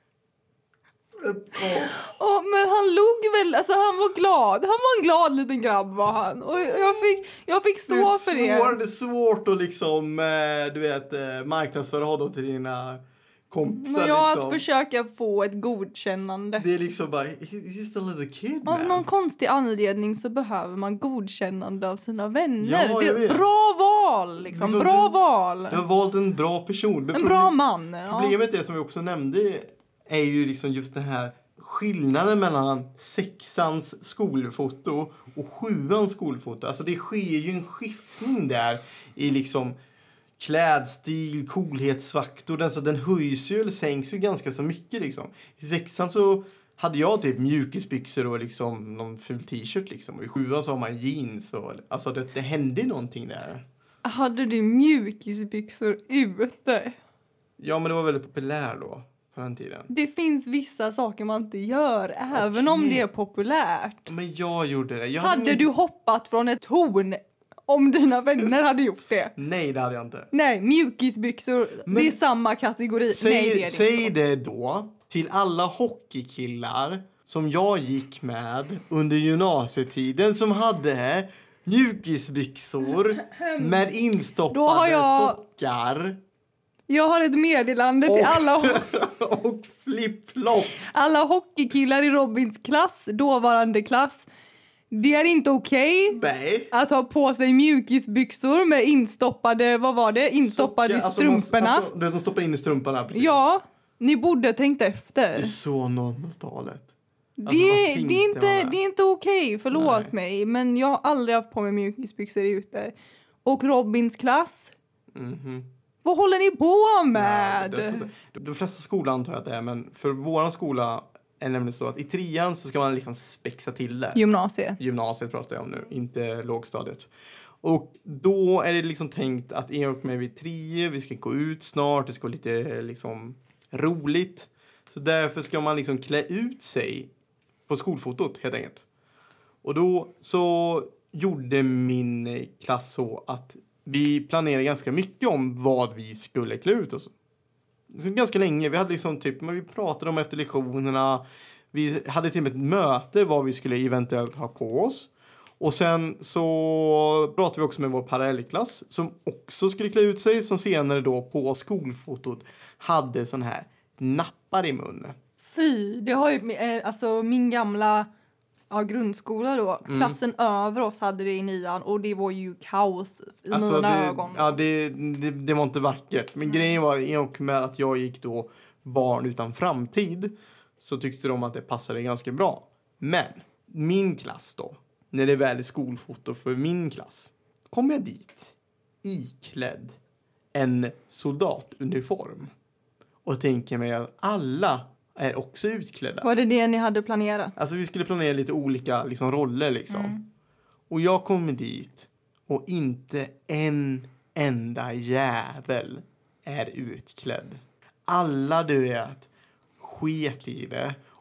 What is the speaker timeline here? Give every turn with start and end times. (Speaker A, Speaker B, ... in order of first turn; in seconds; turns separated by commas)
Speaker A: 1.1-2.0, Speaker B: 1.6-8.8, Speaker A: 7.9-14.6, Speaker B: 13.8-16.7, Speaker A: 16.6-19.0, Speaker B: 18.6-25.8, Speaker A: 22.6-23.4, Speaker A: 24.5-25.1, Speaker A: 25.7-27.5, Speaker B: 27.1-28.4, Speaker A: 28.1-39.8, Speaker A: 40.4-53.6, Speaker B: 54.0-57.0, Speaker A: 57.6-59.9, Speaker B: 59.9-64.1, Speaker A: 62.3-63.0, Speaker A: 64.1-65.7, Speaker B: 65.2-69.3, Speaker A: 69.4-70.3, Speaker B: 70.3-74.1, Speaker A: 71.9-72.2, Speaker A: 73.1-86.2, Speaker B: 83.2-83.8, Speaker B: 84.5-85.4, Speaker B: 86.9-88.9, Speaker A: 88.0-90.8, Speaker B: 90.7-94.3, Speaker B: 94.9-96.2, Speaker A: 96.1-96.7, Speaker B: 96.7-101.9, Speaker A: 100.4-103.4, Speaker B: 103.1-105.5, Speaker A: 105.4-106.9, Speaker B: 107.4-112.9, Speaker A: 107.5-108.8, Speaker A: 109.7-110.1, Speaker B: 113.5-114.7, Speaker A: 115.1-115.7, Speaker B: 116.0-118.1, Speaker A: 117.1-124.2, Speaker B: 124.1-124.8, Speaker A: 124.8-127.1, Speaker A: 127.6-137.1, Speaker A: 137.7-138.8, Speaker A: 139.6-147.1, Speaker A: 147.9-165.2, Speaker B: 165.5-168.1, Speaker B: 168.7-174.6, Speaker A: 169.9-170.2, Speaker A: 173.5-190.0, Speaker A: 190.5-192.5, Speaker A: 193.2-196.3, Speaker B: 196.2-197.5, Speaker A: 197.6-200.1, Speaker B: 199.9-200.2, Speaker A: 200.9-209.3, Speaker A: 209.8-211.0